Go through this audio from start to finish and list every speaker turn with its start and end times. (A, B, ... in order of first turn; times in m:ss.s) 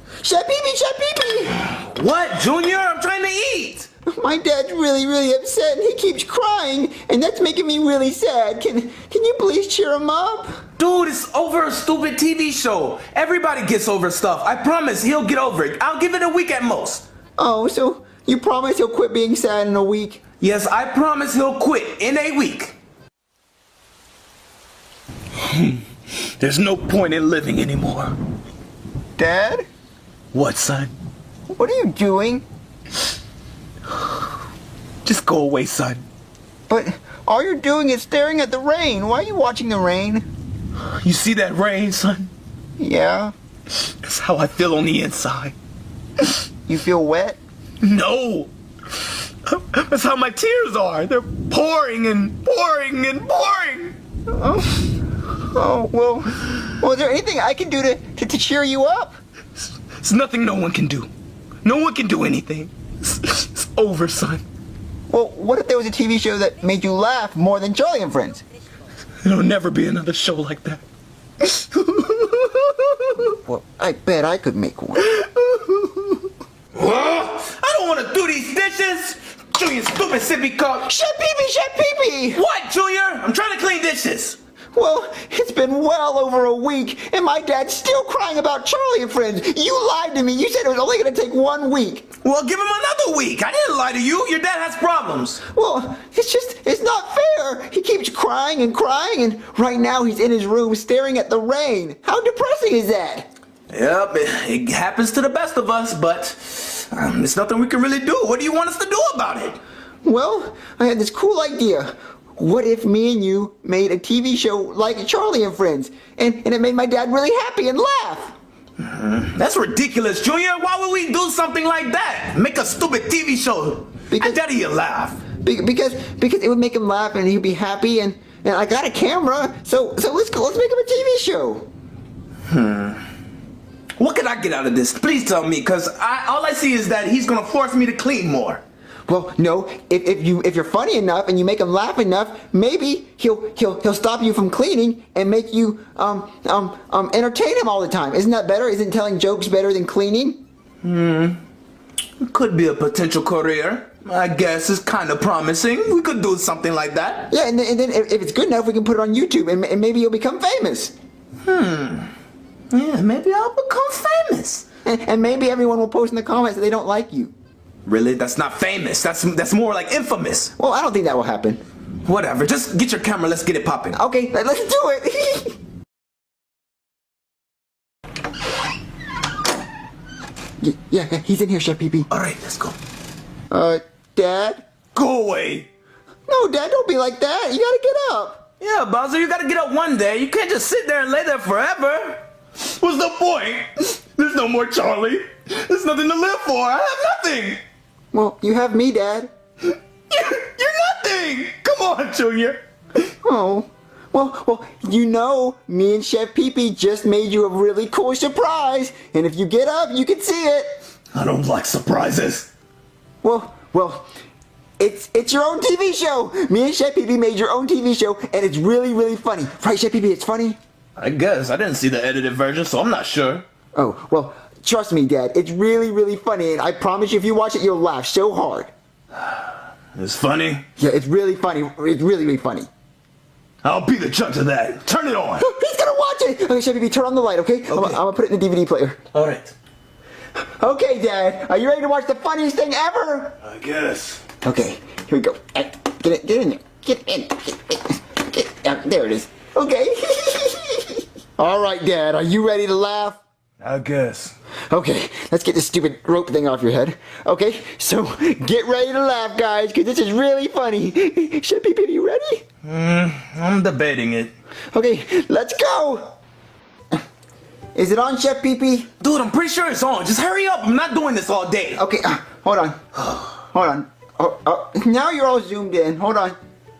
0:00.2-0:01.5 A
0:01.5-0:03.9 B
0:04.1-0:10.6 A
0:10.8-0:17.0 B
0:17.4-0:20.2 A
0:20.4-0:22.7 B
0:25.4-0:28.1 B
0:29.2-0:29.7 A
0:30.3-0:30.9 B
0:31.5-0:32.4 A
0:35.0-0:36.0 B
0:36.7-0:40.3 A
0:41.0-0:42.3 B
0:42.8-0:43.3 A
0:43.8-0:45.5 B
0:46.7-0:47.4 A
0:47.8-0:48.5 B
0:49.4-0:53.9 B
0:54.3-0:59.2 A
1:00.0-1:01.1 B
1:01.6-1:04.4 B
1:05.1-1:08.4 A
1:09.2-1:10.8 B
1:11.4-1:13.3 B
1:13.4-1:15.2 A
1:16.7-1:20.9 B
1:20.8-1:22.4 A
1:22.3-1:24.4 B
1:24.7-1:32.0 A
1:32.2-1:35.4 B
1:35.5-1:43.3 A
1:43.7-1:49.6 B
1:50.0-1:58.3 A
1:58.8-2:05.2 B
2:04.1-2:04.4 A
2:05.4-2:11.7 A
2:12.5-2:13.0 B
2:14.0-2:18.6 B
2:19.1-2:30.4 A
2:30.8-2:31.4 B
2:32.2-2:37.3 B
2:37.3-2:40.9 A
2:41.4-2:42.1 B
2:42.7-2:44.6 B
2:44.8-2:47.3 A
2:47.8-2:50.5 B
2:50.6-2:51.6 A
2:52.0-2:54.0 B
2:53.9-2:55.5 A
3:00.6-3:02.1 A
3:02.1-3:02.8 B
3:03.5-3:04.6 A
3:04.9-3:05.7 B
3:06.3-3:08.4 A
3:08.6-3:17.6 B
3:18.1-3:19.3 A
3:20.1-3:22.6 B
3:23.2-3:30.8 A
3:31.1-3:32.5 B
3:33.2-3:34.1 A
3:34.8-3:40.6 A
3:41.0-3:43.4 B
3:43.7-3:48.7 A
3:49.9-3:50.6 B
3:50.8-3:52.7 A
3:53.6-3:55.5 B
3:55.4-3:59.0 A
3:57.7-3:58.0 B
3:59.1-3:59.5 B
4:00.6-4:03.4 A
4:03.4-4:04.2 B
4:04.4-4:13.2 A
4:13.6-4:14.3 B
4:14.7-4:22.4 A
4:22.6-4:24.3 B
4:24.7-4:26.1 A
4:27.7-4:28.9 A
4:29.0-4:31.8 B
4:31.8-4:32.8 A
4:32.9-4:33.3 B
4:33.5-4:36.4 A